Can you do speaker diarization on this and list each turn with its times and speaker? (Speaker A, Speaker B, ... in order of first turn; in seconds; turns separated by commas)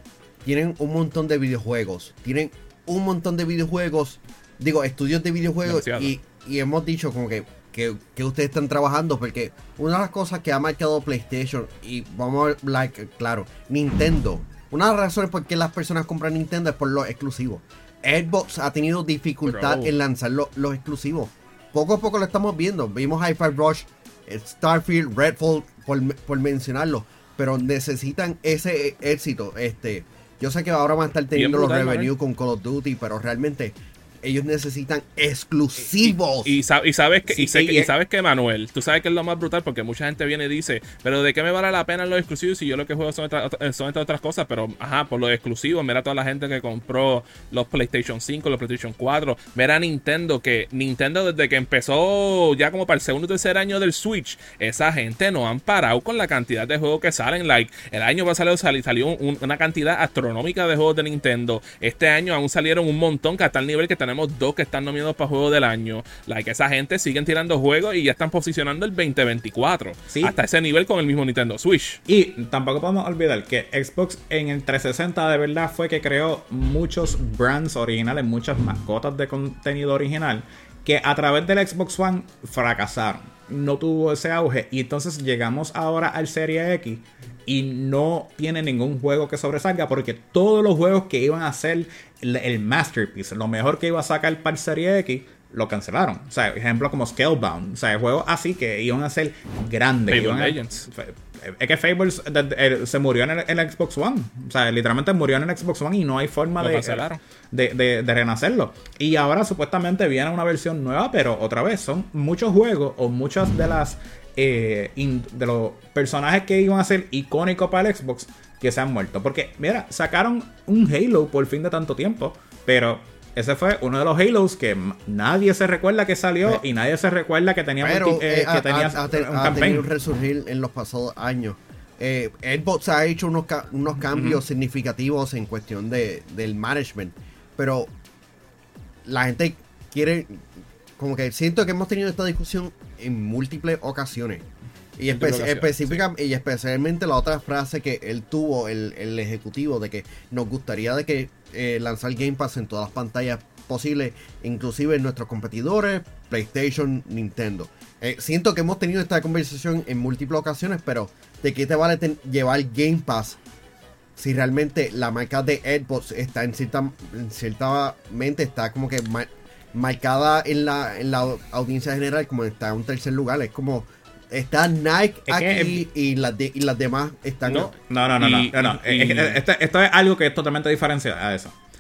Speaker A: 0.4-36.6, Speaker B: 5.7-6.2, Speaker B: 19.5-19.9, Speaker B: 31.3-32.1, Speaker B: 36.0-72.0, Speaker C: 37.3-37.9, Speaker C: 70.1-70.4, Speaker C: 72.1-129.9, Speaker B: 100.1-100.9, Speaker B: 106.6-107.2, Speaker A: 127.8-137.9, Speaker C: 134.1-134.4, Speaker A: 139.1-140.5, Speaker A: 141.0-163.4, Speaker B: 145.1-146.0, Speaker A: 164.2-177.7, Speaker C: 175.3-175.8, Speaker B: 177.5-179.4, Speaker C: 177.9-181.6